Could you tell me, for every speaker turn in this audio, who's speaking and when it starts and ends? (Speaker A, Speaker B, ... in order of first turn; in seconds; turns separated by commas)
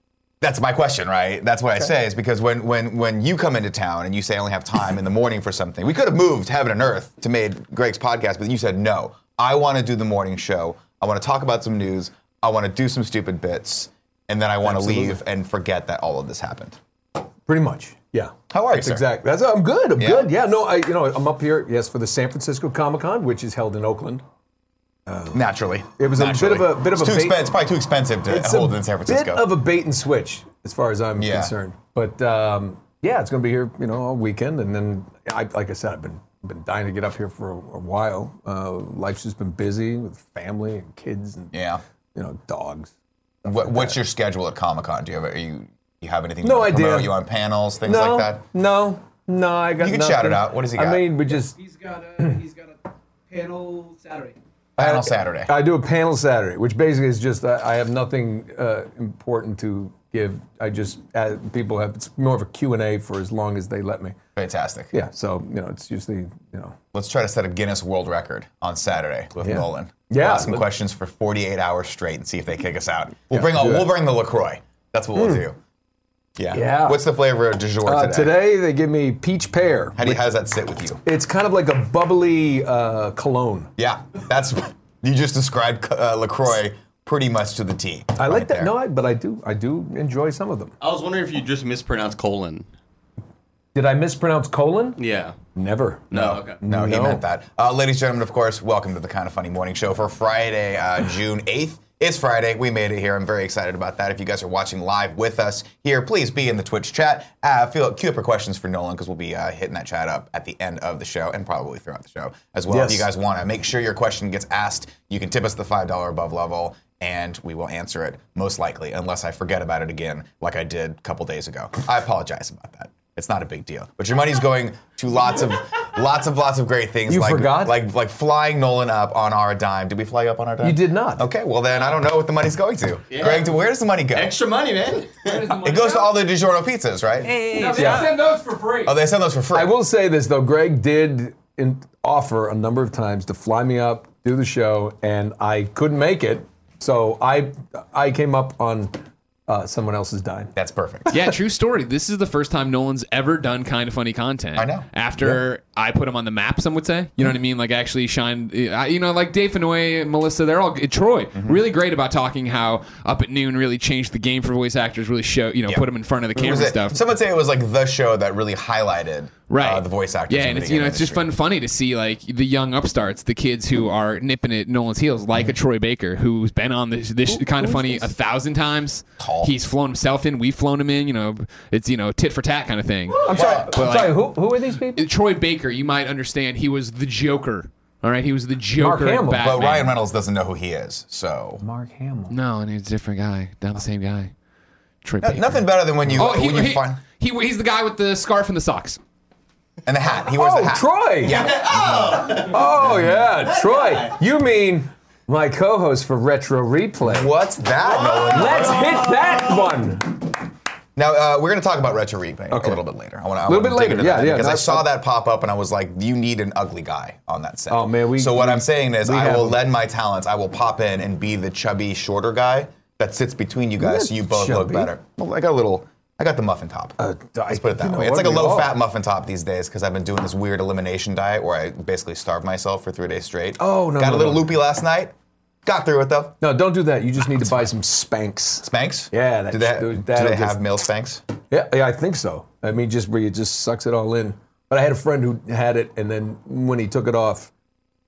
Speaker A: 0.4-16.8, Speaker B: 14.6-15.2, Speaker B: 17.5-24.2, Speaker A: 18.5-19.1, Speaker A: 20.0-20.3, Speaker B: 25.1-25.4, Speaker A: 25.3-29.5, Speaker B: 26.0-27.5, Speaker B: 28.3-41.5, Speaker A: 31.2-31.5, Speaker A: 41.5-41.8, Speaker B: 42.1-42.9, Speaker B: 43.4-44.0, Speaker A: 43.5-48.4, Speaker B: 46.4-47.2, Speaker B: 47.8-51.6, Speaker A: 49.8-51.2, Speaker C: 51.6-54.4, Speaker A: 54.8-55.5, Speaker B: 54.8-64.2, Speaker A: 64.3-64.9, Speaker B: 64.9-66.8, Speaker A: 66.9-75.6, Speaker B: 69.4-70.7, Speaker B: 73.3-73.9, Speaker B: 75.2-75.5, Speaker A: 76.4-78.4, Speaker B: 76.5-77.0, Speaker B: 77.8-80.2, Speaker A: 80.0-81.0, Speaker B: 81.0-83.7, Speaker A: 83.8-88.8, Speaker B: 88.2-90.7, Speaker D: 90.8-92.7, Speaker B: 93.7-95.0, Speaker D: 95.0-95.3, Speaker B: 95.5-97.2, Speaker D: 96.1-96.6, Speaker A: 96.1-134.4, Speaker B: 112.7-113.1, Speaker B: 127.1-127.8, Speaker B: 130.6-131.3, Speaker D: 133.1-133.5, Speaker D: 134.1-135.5, Speaker E: 135.2-136.1, Speaker A: 135.6-137.3, Speaker C: 137.4-138.0, Speaker E: 137.5-138.9, Speaker B: 137.7-138.1, Speaker A: 138.8-139.8, Speaker B: 139.5-150.5, Speaker A: 150.5-151.2, Speaker E: 151.1-167.0, Speaker A: 154.6-154.9, Speaker A: 161.3-161.6, Speaker A: 165.7-171.3, Speaker E: 169.5-184.3, Speaker B: 177.2-178.1, Speaker A: 179.2-179.5, Speaker B: 183.2-185.0, Speaker A: 183.3-183.7, Speaker E: 184.9-190.0, Speaker B: 188.8-189.5, Speaker A: 189.4-191.6, Speaker B: 191.6-192.3, Speaker E: 192.3-194.3, Speaker E: 195.0-199.0, Speaker A: 195.2-197.0, Speaker A: 199.8-202.5, Speaker B: 200.3-201.4, Speaker D: 201.2-204.2, Speaker B: 202.4-207.3, Speaker A: 207.0-209.1, Speaker D: 207.9-209.6, Speaker B: 208.3-210.2, Speaker A: 210.9-226.9, Speaker B: 212.5-212.8, Speaker B: 213.4-214.8, Speaker B: 217.7-219.6, Speaker B: 223.8-224.9, Speaker B: 227.0-228.7, Speaker A: 227.5-235.1, Speaker B: 233.6-234.5, Speaker A: 235.6-236.4, Speaker B: 236.4-240.6, Speaker A: 238.6-241.2, Speaker B: 241.5-247.5